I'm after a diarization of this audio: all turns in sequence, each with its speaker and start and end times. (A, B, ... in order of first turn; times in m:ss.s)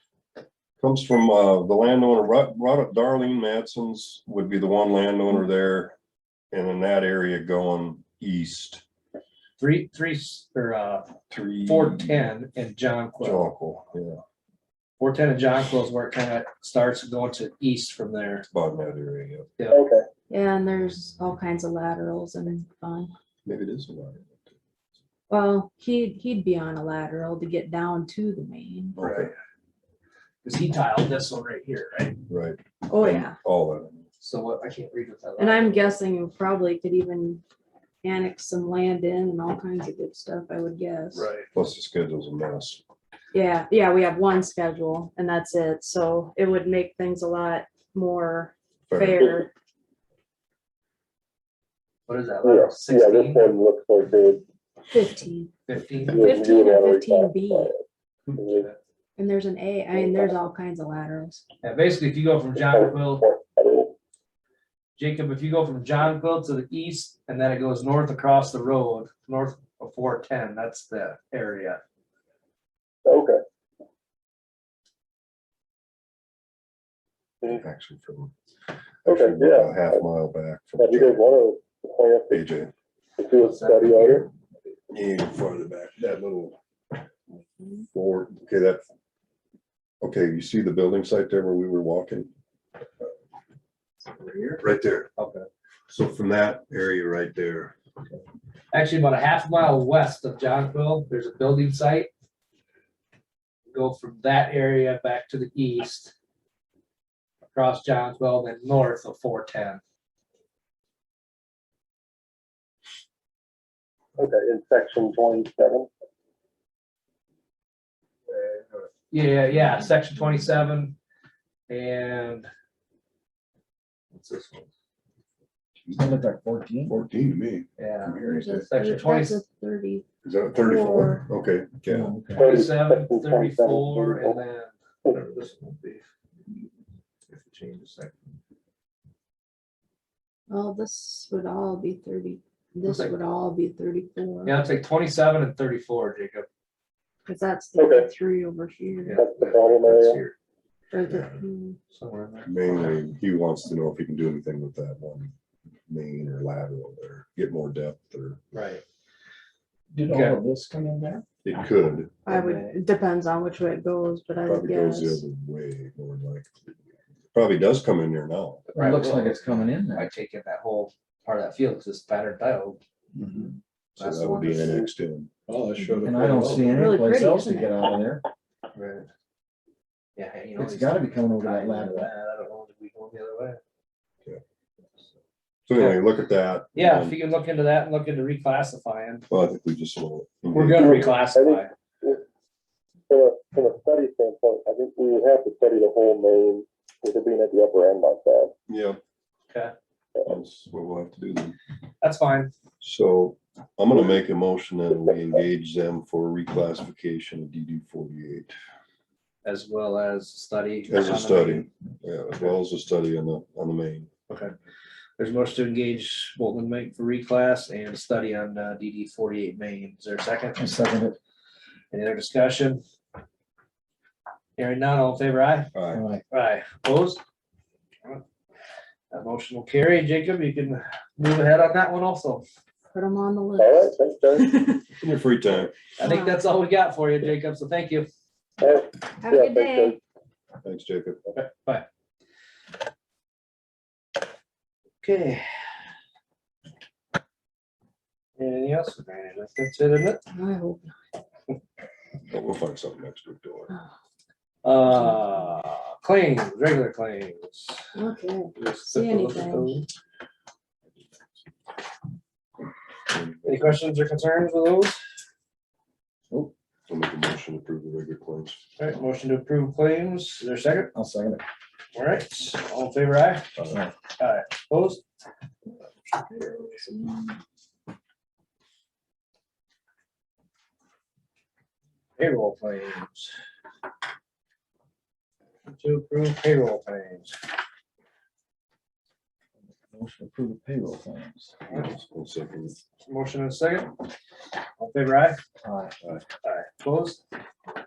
0:00.8-0:06.0 A
0:06.5-0:08.8 A
0:09.6-0:13.5 B
0:11.3-0:12.3 A
0:13.2-0:14.2 A
0:15.0-0:18.5 B
0:18.5-0:19.5 A
0:19.7-0:20.1 C
0:20.3-0:23.1 D
0:23.4-0:24.4 A
0:25.3-0:29.0 D
0:29.0-0:29.3 B
0:29.0-0:29.3 A
0:30.4-0:32.2 B
0:32.3-0:34.0 A
0:32.9-0:33.4 D
0:34.2-0:36.0 B
0:35.4-0:37.4 D
0:38.0-0:41.3 D
0:41.1-0:41.5 B
0:41.5-0:42.8 A
0:43.3-0:49.5 D
0:48.9-0:49.4 A
0:52.1-0:53.6 B
0:52.4-0:54.4 C
0:54.9-0:55.5 D
0:55.7-0:56.3 B
0:56.1-0:57.8 C
0:56.1-0:57.7 D
0:58.3-0:58.8 B
0:58.4-0:58.7 C
0:59.2-1:01.4 D
1:00.0-1:00.3 C
1:01.6-1:03.3 B
1:02.6-1:04.0 C
1:05.0-1:11.8 B
1:13.0-1:13.4 C
1:17.5-1:18.3 A
1:19.0-1:21.2 A
1:19.1-1:20.1 C
1:20.8-1:22.4 C
1:22.3-1:22.7 A
1:23.2-1:24.3 C
1:23.4-1:24.3 B
1:24.9-1:26.6 A
1:27.3-1:27.9 D
1:27.9-1:28.8 A
1:30.0-1:32.3 A
1:34.2-1:34.6 B
1:34.6-1:35.1 A
1:35.2-1:35.5 B
1:35.9-1:37.8 A
1:38.7-1:42.1 B
1:43.7-1:46.1 B
1:47.5-1:49.8 B
1:54.2-1:55.9 C
1:58.3-2:01.0 B
2:01.7-2:02.5 B
2:04.1-2:04.7 B
2:05.8-2:06.3 A
2:06.0-2:06.9 E
2:06.8-2:08.7 A
2:07.8-2:09.4 B
2:08.2-2:11.3 D
2:10.2-2:12.1 A
2:11.8-2:12.5 E
2:12.4-2:14.4 C
2:12.4-2:16.1 B
2:17.3-2:18.4 B
2:20.5-2:24.6 D
2:22.8-2:23.2 B
2:24.4-2:26.5 B
2:27.3-2:29.2 D
2:27.8-2:28.1 C
2:29.0-2:30.4 B
2:29.2-2:30.2 C
2:30.9-2:31.8 D
2:31.0-2:31.4 A
2:31.9-2:33.0 B
2:32.4-2:35.3 A
2:35.9-2:38.4 A
2:38.5-2:38.8 B
2:39.9-2:41.2 E
2:40.1-2:40.4 B
2:41.4-2:42.2 A
2:42.3-2:45.2 D
2:42.3-2:42.8 B
2:44.4-2:46.5 A
2:47.3-2:48.7 A
2:48.7-2:54.8 B
2:48.7-2:50.1 E
2:54.0-2:55.3 A
2:55.5-2:56.9 B
2:56.0-2:58.2 E
2:56.6-2:57.8 D
2:58.7-2:59.1 B
3:00.2-3:03.6 B
3:00.6-3:02.1 E
3:05.7-3:07.2 A
3:05.8-3:06.0 B
3:06.8-3:09.2 B
3:09.3-3:10.8 A
3:10.5-3:11.7 B
3:10.7-3:12.2 C
3:13.1-3:18.5 C
3:18.7-3:19.0 A
3:20.3-3:21.6 A
3:22.0-3:22.5 B
3:22.8-3:28.5 A
3:29.4-3:31.7 B
3:30.9-3:34.1 A
3:34.3-3:34.5 B
3:35.2-3:40.6 B
3:40.6-3:41.2 E
3:41.9-3:42.8 B
3:44.6-3:45.7 B
3:45.7-3:46.0 A
3:46.0-3:46.2 E
3:46.3-3:47.2 B
3:49.1-3:52.4 B
3:52.9-3:54.8 D
3:53.6-3:54.5 C
3:55.0-3:55.7 A
3:56.0-3:58.1 B
3:56.0-3:56.4 D
3:58.6-4:00.0 C
3:59.2-4:00.0 D
4:00.6-4:01.2 A
4:01.4-4:01.9 B
4:05.0-4:05.5 B
4:08.4-4:10.2 B
4:10.3-4:11.0 D
4:12.3-4:13.7 A
4:14.6-4:17.9 B
4:18.0-4:19.8 D
4:18.6-4:19.9 B
4:23.1-4:23.8 A
4:23.5-4:25.0 B
4:26.9-4:28.6 A
4:28.8-4:30.9 B
4:30.9-4:31.4 E
4:31.9-4:35.0 B
4:36.2-4:36.8 B
4:36.4-4:37.3 D
4:42.2-4:43.4 B
4:45.7-4:47.4 B
4:49.9-4:51.6 E
4:51.7-4:52.8 A
4:53.1-4:53.9 B
4:54.8-4:55.4 B
4:55.6-4:56.0 E
4:56.4-4:57.2 B